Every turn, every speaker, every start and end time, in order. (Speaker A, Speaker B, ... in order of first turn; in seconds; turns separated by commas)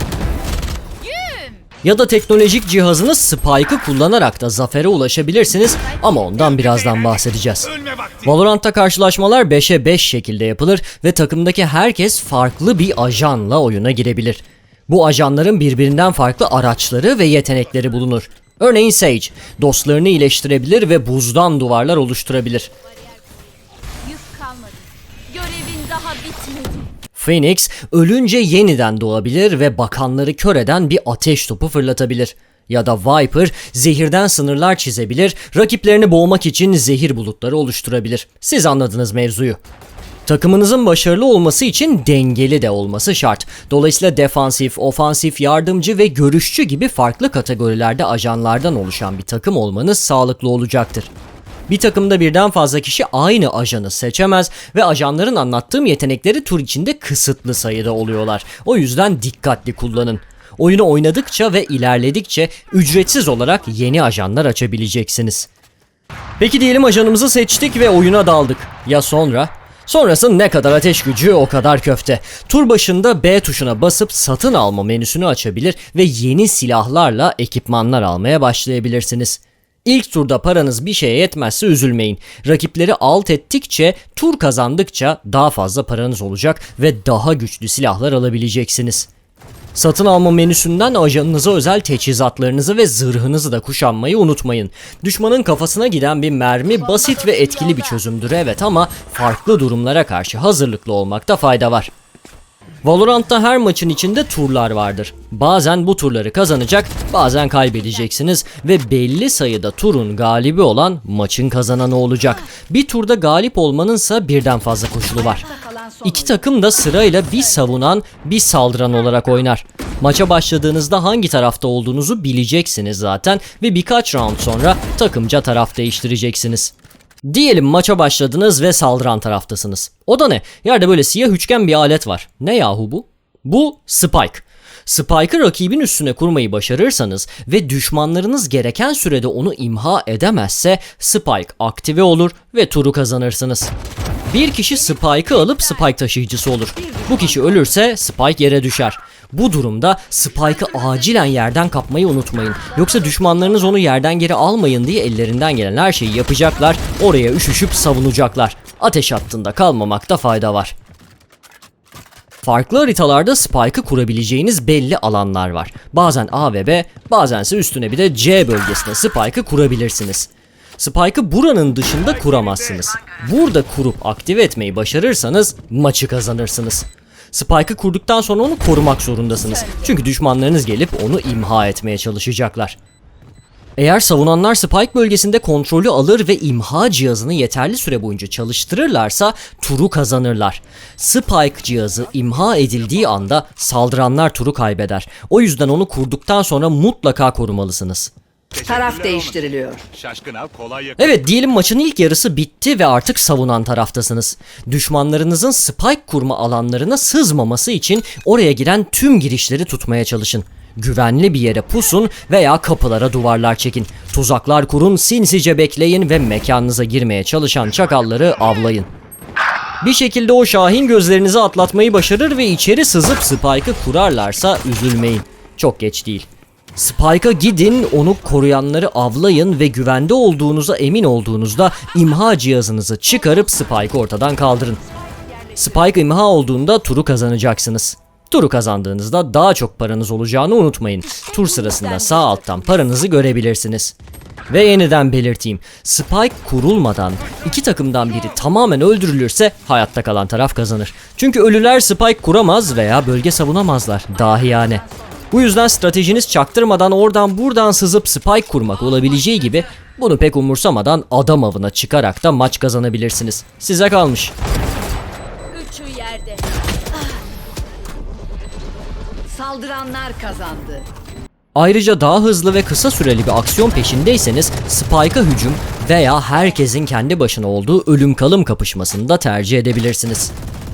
Speaker A: 1.0-1.7, Speaker B: 1.8-22.7, Speaker A: 24.0-26.9, Speaker B: 27.1-39.6, Speaker B: 40.3-51.1, Speaker B: 51.7-65.5, Speaker B: 66.4-89.1, Speaker B: 89.8-101.9, Speaker B: 102.8-115.5, Speaker C: 115.4-116.4, Speaker B: 116.0-126.7, Speaker B: 127.2-143.7, Speaker B: 144.3-160.8, Speaker A: 145.1-145.6, Speaker C: 146.8-147.6, Speaker B: 162.4-182.8, Speaker B: 183.8-198.1, Speaker D: 198.5-199.4, Speaker C: 198.6-199.8, Speaker D: 199.9-201.0, Speaker B: 201.0-218.9, Speaker B: 219.8-234.8, Speaker A: 234.8-235.8, Speaker B: 235.6-243.9, Speaker A: 241.1-242.9, Speaker B: 244.5-264.3, Speaker A: 265.5-266.5, Speaker C: 269.3-270.9, Speaker B: 271.6-280.3